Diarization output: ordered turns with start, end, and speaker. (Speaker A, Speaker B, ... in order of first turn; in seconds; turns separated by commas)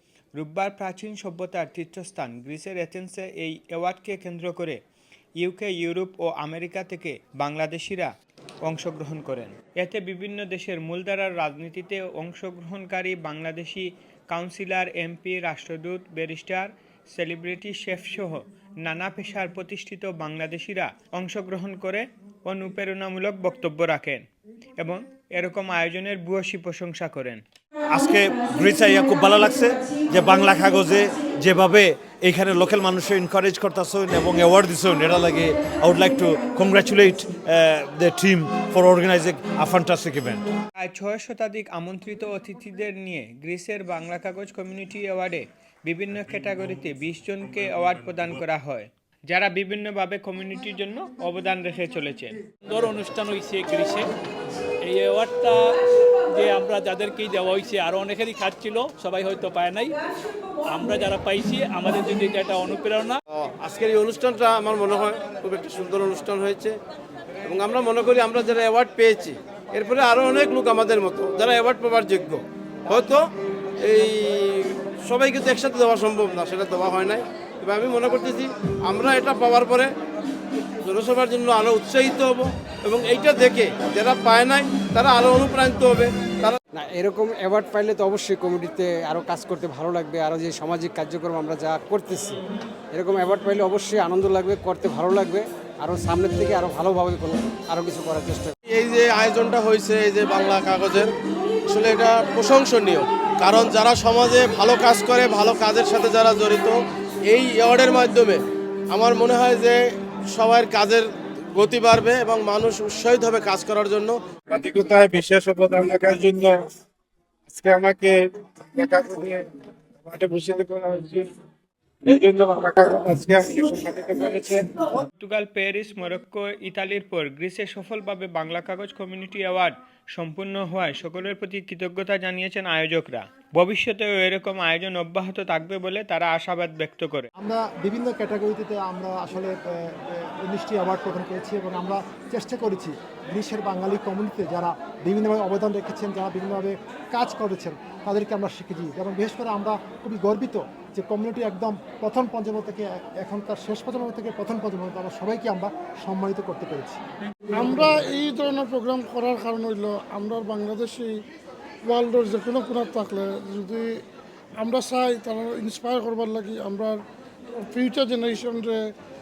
Speaker A: 0.3-4.8, Speaker A: 5.4-8.1, Speaker A: 8.6-24.2, Speaker A: 24.8-27.4, Speaker B: 28.0-29.6, Speaker B: 30.1-40.4, Speaker A: 40.8-52.4, Speaker C: 52.6-54.1, Speaker C: 54.8-55.8, Speaker C: 56.3-60.0, Speaker C: 60.7-63.2, Speaker D: 63.4-66.7, Speaker D: 67.5-73.2, Speaker D: 73.8-74.1, Speaker D: 74.7-79.9, Speaker D: 80.9-86.5, Speaker E: 86.8-92.4, Speaker E: 92.9-98.5, Speaker D: 98.7-101.1, Speaker D: 101.7-106.8, Speaker D: 107.3-108.4, Speaker D: 108.9-109.8, Speaker D: 110.3-111.0, Speaker D: 111.6-114.1, Speaker F: 114.5-116.6, Speaker F: 117.5-118.2, Speaker F: 118.7-119.4, Speaker F: 120.1-121.2, Speaker F: 122.0-124.6, Speaker A: 125.2-137.3, Speaker G: 137.3-157.0, Speaker H: 157.5-161.1, Speaker H: 161.9-164.0, Speaker H: 164.6-167.0, Speaker H: 167.7-168.8